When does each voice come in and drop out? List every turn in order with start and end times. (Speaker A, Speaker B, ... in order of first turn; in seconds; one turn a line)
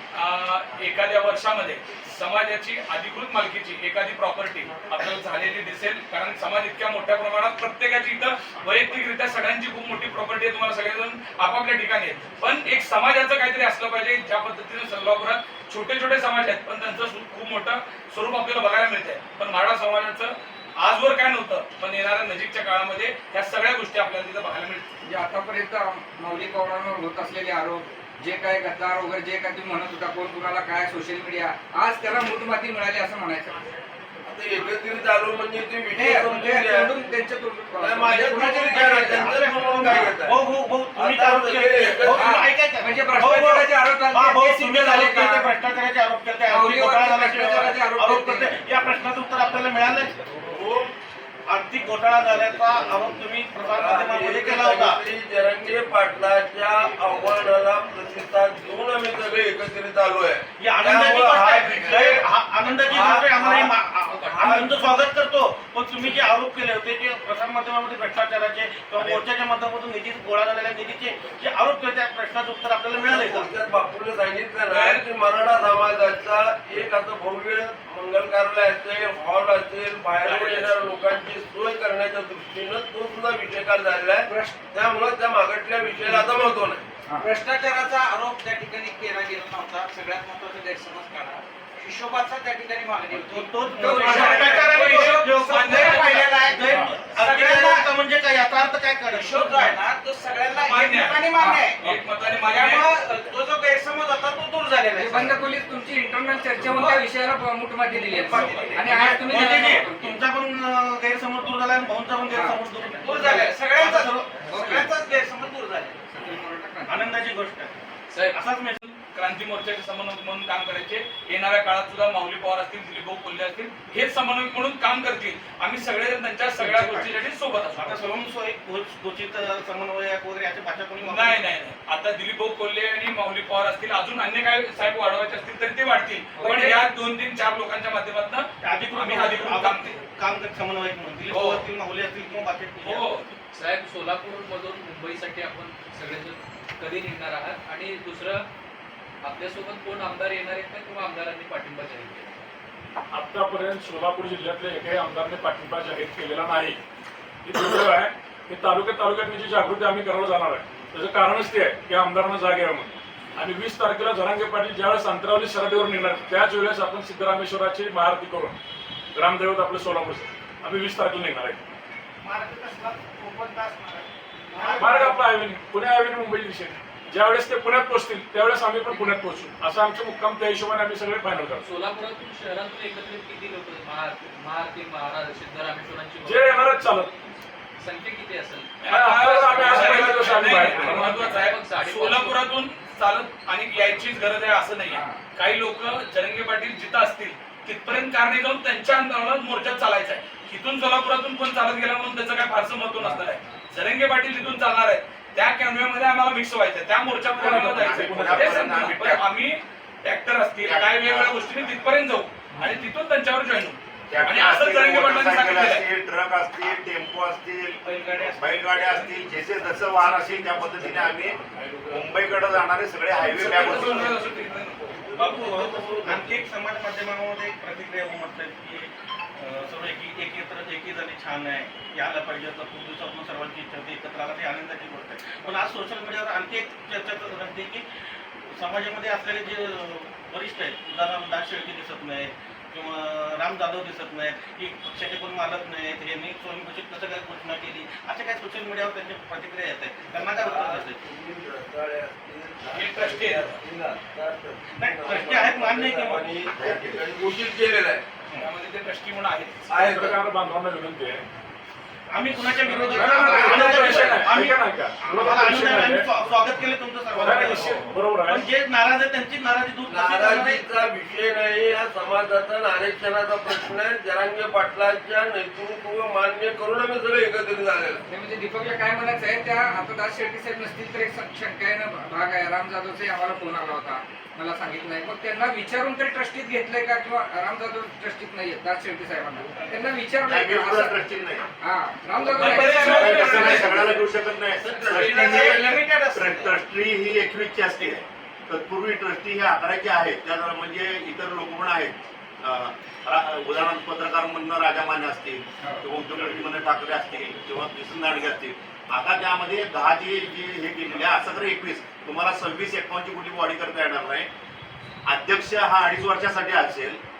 Speaker A: 0.1-24.9
Speaker B: 25.1-33.6
Speaker C: 34.2-37.0
Speaker B: 35.9-40.2
Speaker C: 37.7-42.2
Speaker D: 38.7-50.1
Speaker B: 42.1-45.5
Speaker B: 46.5-48.5
Speaker C: 50.4-50.9
Speaker D: 51.5-55.0
Speaker C: 52.7-62.2
Speaker D: 60.6-73.5
Speaker E: 62.8-63.3
Speaker C: 63.4-63.7
Speaker E: 64.0-64.8
Speaker C: 64.4-64.8
Speaker C: 72.9-86.8
Speaker A: 74.7-75.0
Speaker A: 80.2-80.9
Speaker F: 87.2-97.9
Speaker D: 93.3-95.4
Speaker B: 93.8-94.2
Speaker A: 93.8-96.4
Speaker D: 96.5-99.7
Speaker F: 99.2-105.4
Speaker A: 100.6-101.3
Speaker B: 101.3-101.7
Speaker A: 101.8-102.8
Speaker B: 104.9-110.2
Speaker F: 106.6-107.0
Speaker F: 107.8-108.9
Speaker D: 108.5-113.2
Speaker B: 112.3-112.6
Speaker F: 113.0-116.0
Speaker D: 113.8-114.2
Speaker B: 114.4-114.9
Speaker B: 116.1-117.2
Speaker D: 116.9-117.8
Speaker E: 118.1-118.4
Speaker D: 118.3-118.8
Speaker A: 118.8-128.1
Speaker D: 126.6-127.2
Speaker D: 127.8-131.4
Speaker A: 131.0-140.0
Speaker B: 136.4-136.7
Speaker D: 138.6-143.2
Speaker A: 141.3-141.6
Speaker A: 142.8-143.3
Speaker E: 143.5-148.4
Speaker E: 149.2-152.3
Speaker G: 153.1-156.8
Speaker G: 157.4-168.6
Speaker G: 169.1-171.6
Speaker F: 172.2-175.2
Speaker G: 174.7-181.7
Speaker E: 178.9-179.2
Speaker E: 181.6-186.5
Speaker G: 186.2-187.2
Speaker E: 187.8-188.9
Speaker A: 188.8-215.8
Speaker G: 188.9-191.3
Speaker E: 189.5-189.9
Speaker E: 190.7-192.4
Speaker B: 194.9-195.2
Speaker G: 207.4-208.9
Speaker H: 207.4-209.2
Speaker H: 210.6-211.3
Speaker H: 214.1-217.8
Speaker A: 217.9-218.4
Speaker H: 218.3-221.4
Speaker H: 221.9-224.1
Speaker A: 223.2-224.9
Speaker C: 225.1-226.2
Speaker D: 225.1-237.8
Speaker D: 238.5-251.0
Speaker C: 250.1-258.0
Speaker A: 252.7-253.6
Speaker D: 254.7-256.3
Speaker H: 256.6-257.0
Speaker A: 258.3-260.1
Speaker C: 259.7-260.1
Speaker G: 259.8-261.2
Speaker D: 262.1-264.6
Speaker C: 262.7-263.6
Speaker G: 262.9-266.1
Speaker D: 265.1-270.6
Speaker G: 267.2-268.4
Speaker C: 269.9-278.0
Speaker B: 278.1-291.0
Speaker H: 290.2-291.4
Speaker B: 291.6-294.0
Speaker A: 292.3-293.7
Speaker H: 292.4-314.3
Speaker F: 292.5-293.6
Speaker C: 294.6-295.8
Speaker F: 294.7-296.6
Speaker G: 306.1-306.4
Speaker H: 315.1-317.0